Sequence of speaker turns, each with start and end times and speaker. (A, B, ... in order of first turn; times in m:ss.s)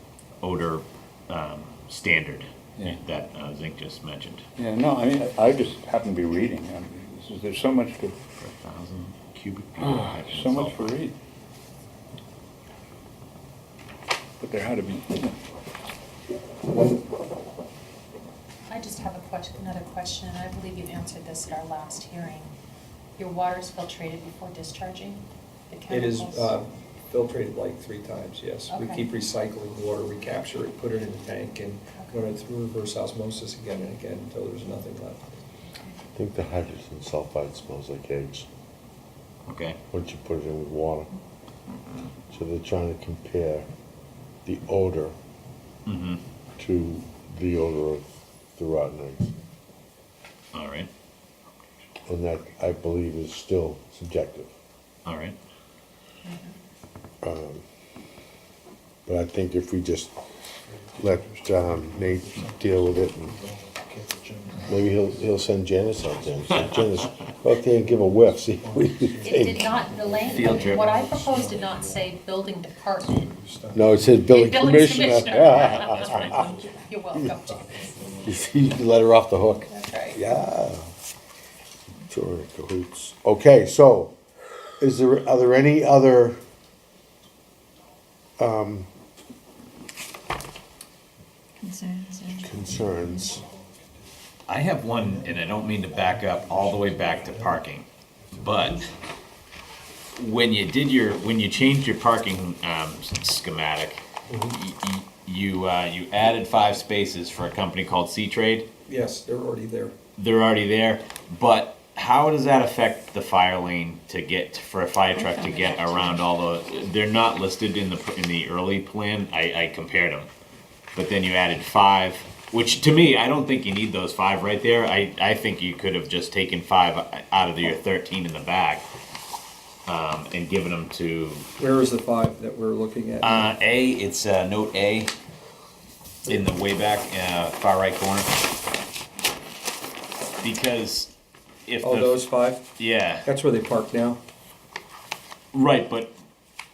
0:00.4-0:04.4 A
0:04.6-0:08.2 B
0:08.4-0:11.0 A
0:09.8-0:11.1 B
0:14.4-0:15.3 B
0:18.7-0:22.5 C
0:23.2-0:26.5 C
0:25.9-0:35.3 D
0:28.7-0:29.0 C
0:31.9-0:32.3 C
0:36.1-0:38.4 E
0:39.5-0:39.8 A
0:39.9-0:41.1 E
0:42.3-0:43.7 E
0:44.4-0:45.1 E
0:45.8-0:46.2 A
0:46.6-0:48.0 E
0:48.6-0:49.3 E
0:50.5-0:50.9 A
0:52.1-0:54.5 E
0:55.0-0:55.4 A
0:56.2-0:56.5 C
0:57.2-0:57.6 E
0:59.1-1:00.1 E
1:00.7-1:05.4 D
1:01.0-1:03.4 E
1:04.7-1:09.8 E
1:06.1-1:06.8 D
1:07.7-1:12.2 D
1:09.2-1:13.3 C
1:10.2-1:10.9 A
1:13.1-1:14.3 D
1:13.7-1:16.4 E
1:14.3-1:17.8 C
1:16.0-1:16.7 D
1:17.5-1:18.5 D
1:18.2-1:20.9 E
1:19.7-1:20.2 C
1:22.0-1:24.1 E
1:24.8-1:26.4 E
1:28.4-1:28.9 E
1:31.6-1:33.4 F
1:32.4-1:34.1 D
1:32.4-1:33.4 E
1:34.5-1:37.8 A
1:34.9-1:37.6 D
1:38.2-1:38.9 D
1:38.4-1:38.9 A
1:40.2-1:48.7 A
1:44.3-1:44.6 D
1:48.9-1:49.9 D
1:50.2-2:00.3 A
1:55.2-1:56.2 F
2:00.9-2:08.8 A
2:09.9-2:11.5 A
2:11.6-2:13.5 D
2:13.2-2:15.1 A
2:16.2-2:18.4 A
2:20.4-2:21.1 A
2:21.7-2:22.1 A
2:21.8-2:22.6 D
2:22.8-2:23.2 A
2:23.2-2:24.2 D
2:25.5-2:26.1 A